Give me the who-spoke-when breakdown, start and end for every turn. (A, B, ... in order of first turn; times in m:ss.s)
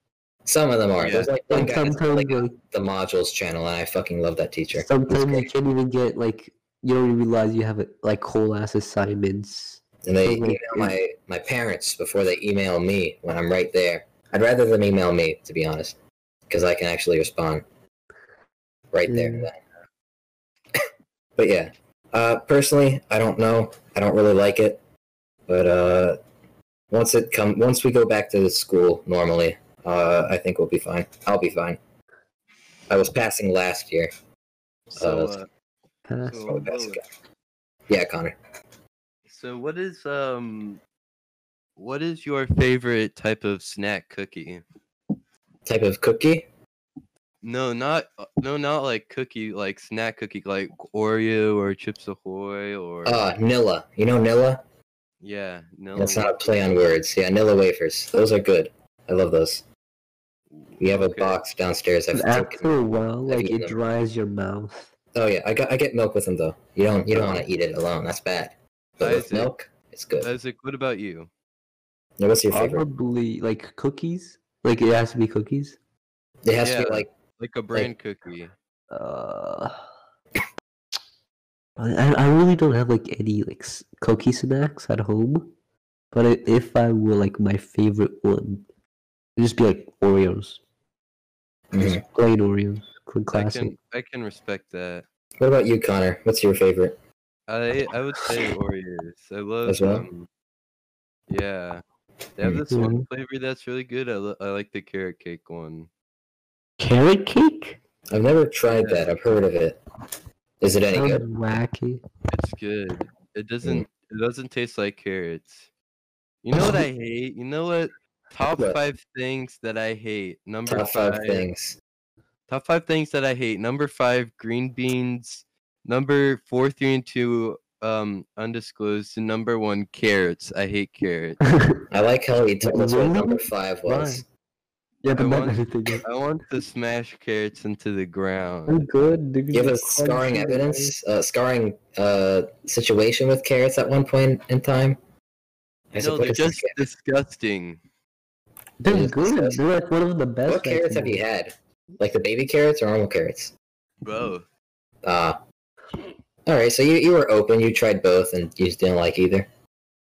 0:00.5-0:05.5 A
0:01.0-0:01.3 B
0:01.5-0:02.6 C
0:04.8-0:11.0 C
0:10.0-0:16.0 A
0:16.5-0:17.6 A
0:18.9-0:19.6 A
0:19.1-0:19.5 C
0:20.8-0:24.8 A
0:25.5-0:26.2 A
0:26.9-0:31.8 A
0:32.9-0:34.1 A
0:34.9-0:35.5 B
0:35.0-0:35.4 A
0:36.1-0:36.5 C
0:36.2-0:37.0 B
0:36.5-0:37.0 A
0:37.9-0:38.4 A
0:39.3-0:40.8 B
0:41.8-0:44.6 B
0:45.7-0:46.5 A
0:47.4-0:53.2 B
0:53.0-0:54.6 A
0:55.2-0:56.8 B
0:56.0-0:59.6 A
1:00.5-1:01.4 B
1:00.8-1:03.8 A
1:02.1-1:04.9 C
1:05.1-1:10.3 A
1:09.0-1:09.5 B
1:10.2-1:11.3 B
1:12.2-1:12.9 A
1:12.5-1:15.8 C
1:16.4-1:17.1 A
1:16.6-1:18.5 B
1:18.9-1:19.9 C
1:21.8-1:25.5 C
1:26.1-1:28.7 C
1:29.4-1:30.6 C
1:31.7-1:32.0 A
1:31.8-1:33.7 C
1:33.3-1:35.1 B
1:35.4-1:37.0 A
1:37.5-1:40.3 B
1:39.7-1:40.1 A
1:41.3-1:41.8 B
1:42.4-1:45.9 B
1:42.4-1:43.0 A
1:42.7-1:43.0 C
1:46.8-1:47.8 C
1:48.1-1:49.8 A
1:48.6-1:49.1 B
1:50.6-1:51.2 A
1:50.9-1:52.0 C
1:52.3-1:55.7 B
1:56.4-2:01.5 B
1:58.5-1:58.8 A
2:00.7-2:01.8 A
2:02.5-2:11.4 B
2:11.5-2:11.8 C
2:11.9-2:14.2 A
2:12.6-2:14.2 C
2:15.0-2:16.0 C
2:15.1-2:18.9 B
2:18.7-2:21.0 C
2:19.5-2:25.0 A
2:25.9-2:26.9 A
2:26.0-2:27.8 B
2:28.8-2:31.2 C
2:28.9-2:29.6 A
2:30.5-2:33.5 A
2:34.0-2:34.5 B
2:35.0-2:35.4 A
2:36.5-2:39.5 A